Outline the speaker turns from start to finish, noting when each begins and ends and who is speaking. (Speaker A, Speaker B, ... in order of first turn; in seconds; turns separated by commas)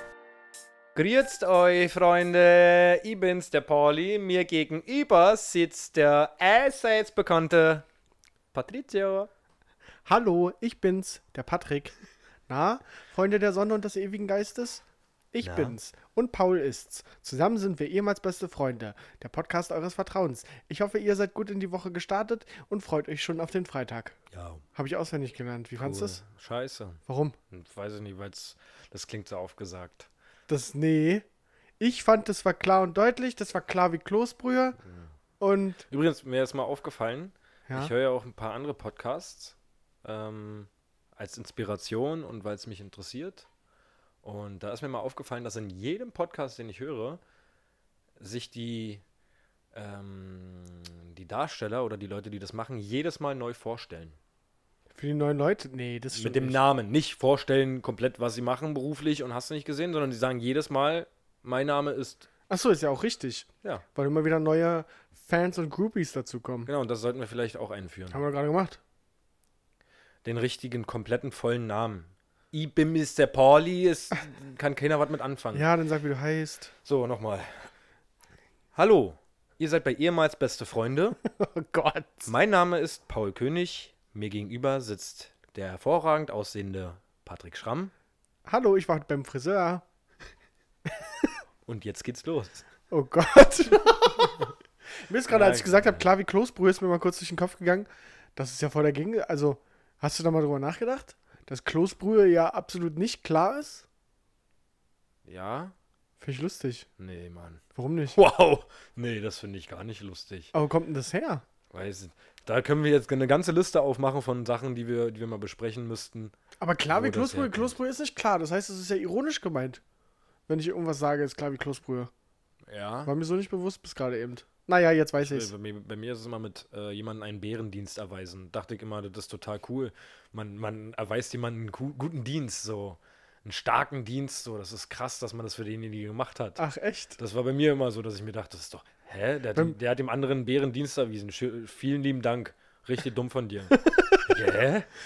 Speaker A: 0.9-7.8, Speaker A: 8.5-9.3, Speaker B: 10.1-11.9, Speaker B: 12.5-24.1, Speaker A: 15.4-15.7, Speaker A: 24.3-24.6, Speaker B: 24.7-26.2, Speaker A: 25.8-30.1, Speaker B: 27.1-27.4, Speaker B: 30.5-31.2, Speaker B: 31.8-34.8, Speaker A: 34.8-35.1, Speaker B: 35.4-35.8, Speaker A: 35.9-43.5, Speaker A: 44.2-47.2, Speaker A: 48.2-49.0, Speaker A: 49.7-54.2, Speaker B: 55.0-56.6, Speaker A: 56.1-62.2, Speaker B: 62.5-66.7, Speaker A: 66.7-68.2, Speaker B: 68.1-68.8, Speaker A: 70.2-75.7, Speaker B: 75.5-76.7, Speaker A: 76.8-77.6, Speaker A: 78.7-81.2, Speaker B: 81.2-82.3, Speaker A: 82.2-87.9, Speaker B: 88.5-89.8, Speaker A: 91.7-92.6, Speaker B: 92.9-94.5, Speaker B: 95.1-103.9, Speaker A: 95.3-96.1, Speaker A: 105.3-105.7, Speaker B: 106.2-106.9, Speaker A: 107.0-107.6, Speaker B: 107.7-108.2, Speaker A: 108.1-110.5, Speaker B: 110.5-111.4, Speaker A: 111.7-116.3, Speaker B: 116.6-119.8, Speaker A: 116.9-117.7, Speaker B: 120.5-122.1, Speaker A: 122.7-123.1, Speaker B: 123.0-125.5, Speaker A: 125.2-136.6, Speaker B: 136.6-137.2, Speaker A: 137.2-143.7, Speaker B: 143.7-144.3, Speaker A: 144.3-144.9